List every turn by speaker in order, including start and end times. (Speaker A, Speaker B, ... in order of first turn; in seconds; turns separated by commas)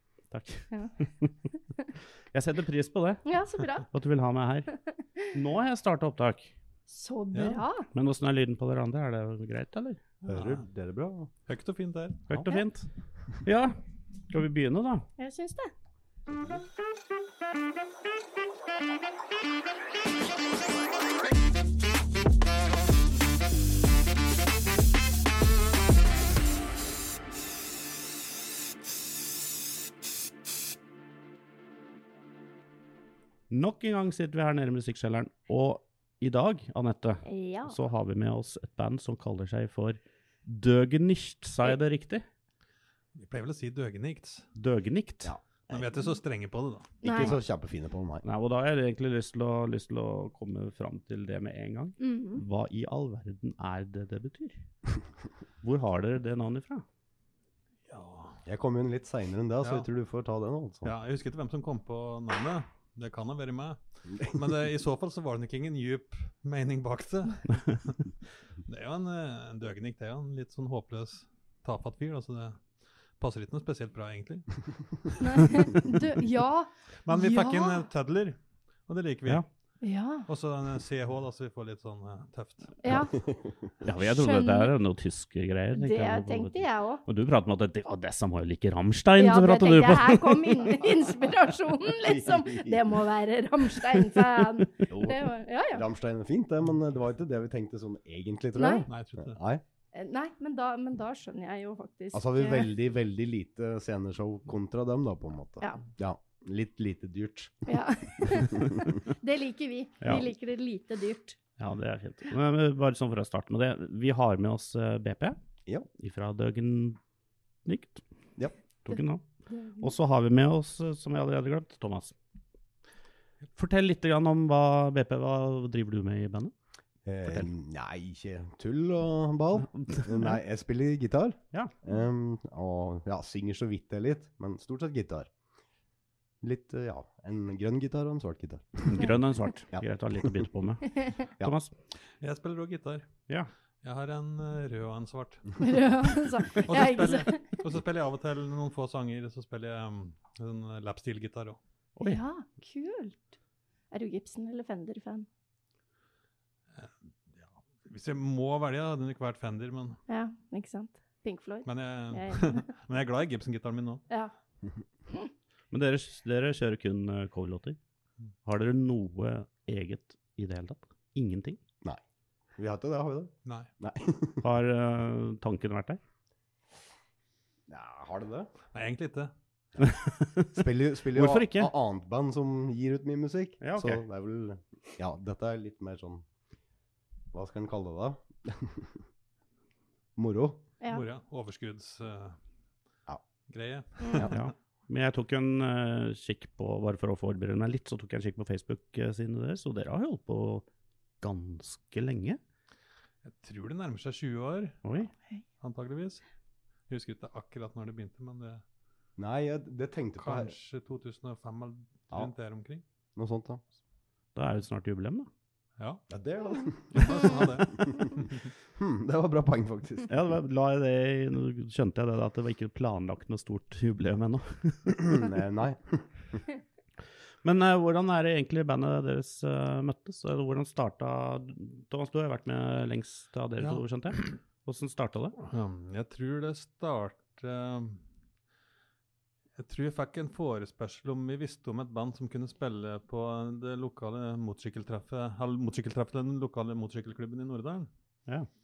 Speaker A: 0.3-1.4, Speaker A: 2.3-3.2, Speaker B: 3.2-3.9, Speaker A: 3.8-4.8, Speaker B: 4.9-5.3, Speaker A: 5.3-6.5, Speaker B: 6.9-7.9, Speaker C: 7.3-7.6, Speaker A: 7.9-10.1, Speaker D: 10.2-11.3, Speaker C: 10.3-10.7, Speaker C: 11.5-12.2, Speaker A: 12.3-12.9, Speaker B: 12.3-12.6, Speaker A: 13.4-13.7, Speaker A: 14.3-15.1, Speaker B: 15.2-15.7, Speaker D: 16.3-16.6, Speaker A: 33.5-42.2, Speaker B: 37.2-37.8, Speaker C: 43.1-44.5, Speaker A: 44.5-45.3, Speaker D: 45.2-45.9, Speaker C: 45.7-47.0, Speaker B: 47.0-47.4, Speaker D: 47.0-48.2, Speaker A: 48.2-54.6, Speaker B: 52.0-52.4, Speaker A: 55.6-56.8, Speaker C: 57.9-58.4, Speaker D: 58.5-60.9, Speaker C: 59.6-59.9, Speaker C: 60.8-68.0, Speaker C: 68.6-75.8, Speaker B: 75.2-77.8, Speaker C: 77.0-79.5, Speaker B: 79.8-80.3, Speaker C: 80.3-82.8, Speaker B: 82.8-83.3, Speaker D: 83.2-83.5, Speaker A: 83.8-90.8, Speaker B: 84.0-84.7, Speaker B: 85.7-87.0, Speaker B: 89.2-95.8, Speaker D: 92.0-92.9, Speaker D: 94.9-99.6, Speaker B: 98.5-98.9, Speaker C: 98.9-99.4, Speaker B: 99.9-102.7, Speaker D: 102.1-108.6, Speaker B: 107.7-111.4, Speaker A: 110.0-110.3, Speaker A: 111.6-115.4, Speaker A: 116.0-117.0, Speaker A: 117.6-118.0, Speaker A: 118.8-119.2, Speaker B: 118.9-119.9, Speaker A: 119.8-122.2, Speaker A: 123.5-126.5, Speaker D: 127.0-135.3, Speaker A: 129.8-130.4, Speaker D: 136.4-139.1, Speaker A: 138.9-141.7, Speaker D: 139.7-140.5, Speaker C: 142.2-143.1, Speaker C: 143.8-145.7, Speaker B: 145.6-147.5, Speaker C: 146.5-151.6, Speaker A: 151.9-152.2, Speaker B: 152.0-153.2, Speaker B: 153.9-155.3, Speaker C: 156.7-160.0, Speaker B: 160.1-162.7, Speaker C: 161.6-164.0, Speaker A: 165.7-167.8, Speaker A: 168.4-171.6, Speaker D: 172.6-174.4, Speaker C: 173.4-173.7, Speaker A: 174.4-176.0, Speaker D: 177.7-178.5, Speaker C: 178.7-179.3, Speaker A: 179.8-181.7, Speaker D: 180.5-186.2, Speaker A: 183.6-184.0, Speaker D: 187.3-189.0, Speaker D: 190.2-190.6, Speaker C: 190.9-192.4, Speaker C: 193.5-194.4, Speaker B: 194.0-194.3, Speaker A: 194.2-200.7, Speaker A: 201.2-202.4, Speaker C: 203.2-204.8, Speaker A: 204.8-205.1, Speaker C: 205.6-206.2, Speaker C: 206.9-208.6, Speaker D: 209.2-210.5, Speaker C: 210.2-212.8, Speaker D: 213.2-213.6, Speaker A: 214.3-215.3, Speaker C: 215.8-216.0, Speaker D: 216.1-220.1, Speaker C: 216.9-218.5, Speaker A: 220.1-225.3, Speaker D: 225.0-226.4, Speaker A: 227.4-235.4, Speaker C: 233.6-234.2, Speaker C: 235.4-238.0, Speaker C: 239.6-247.9